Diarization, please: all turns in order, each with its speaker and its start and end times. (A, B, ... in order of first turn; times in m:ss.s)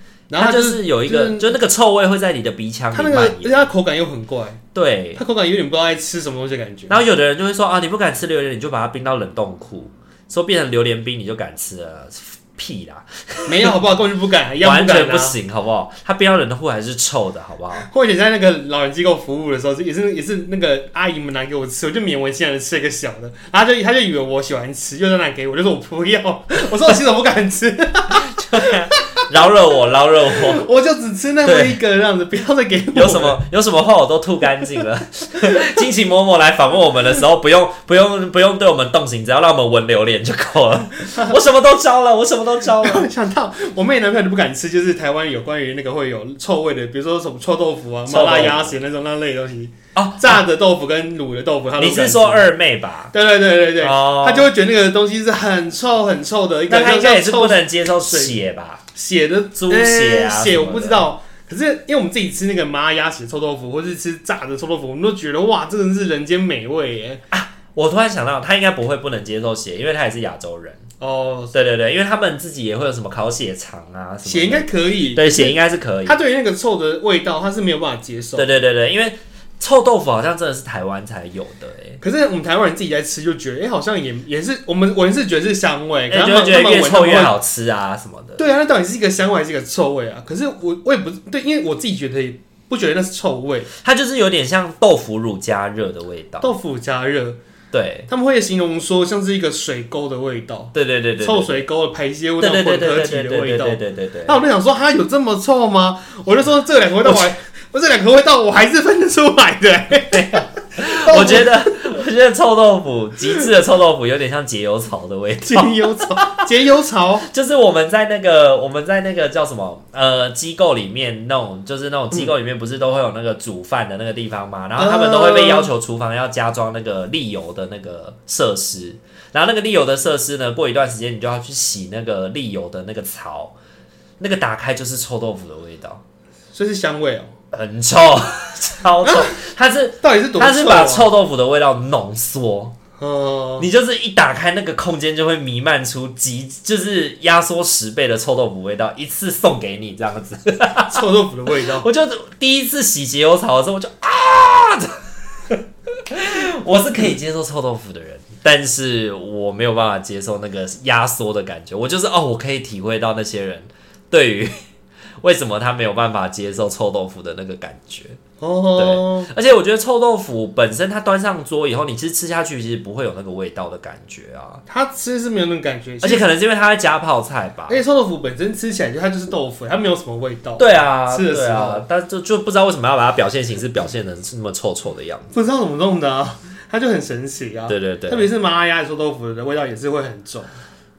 0:00.3-0:01.5 A
0:00.4-0:03.7 B
0:02.9-0:04.6 A
0:04.7-0:05.2 B
0:05.2-0:07.0 A
0:06.9-0:13.8 B
0:13.5-0:15.4 A
0:14.6-0:17.9 B
0:17.7-0:29.0 A
0:28.1-0:30.6 B
0:30.3-0:33.4 A
0:31.4-0:31.8 B
0:32.9-0:43.1 B
0:42.8-0:52.5 A
0:48.1-0:48.8 B
0:49.9-0:50.4 B
0:51.8-0:53.1 B
0:53.1-0:58.4 A
0:53.8-0:54.5 B
0:56.7-0:58.8 B
0:58.9-1:07.2 A
0:59.6-1:01.0 B
1:07.3-1:10.8 B
1:11.0-1:11.5 A
1:11.5-1:16.2 B
1:14.2-1:18.5 A
1:18.4-1:22.0 B
1:22.0-1:27.3 A
1:26.1-1:28.4 B
1:28.4-1:33.7 A
1:33.7-1:36.5 B
1:36.4-1:37.4 A
1:37.7-1:38.1 B
1:38.1-1:51.9 A
1:40.7-1:41.6 B
1:42.4-1:44.4 B
1:50.1-1:56.4 B
1:55.4-1:57.3 A
1:57.2-2:13.6 B
2:04.8-2:05.7 A
2:14.2-2:16.0 B
2:16.5-2:17.3 A
2:17.5-2:22.8 B
2:19.0-2:19.4 A
2:20.0-2:21.1 A
2:23.0-2:23.7 A
2:23.6-2:31.0 B
2:30.8-2:31.9 A
2:31.6-2:44.5 B
2:45.2-2:48.2 B
2:48.4-2:49.3 A
2:48.8-2:54.6 B
2:54.7-2:56.2 A
2:56.0-2:57.8 B
2:57.7-3:01.8 A
3:00.6-3:05.3 B
3:05.3-3:10.5 A
3:07.7-3:08.3 B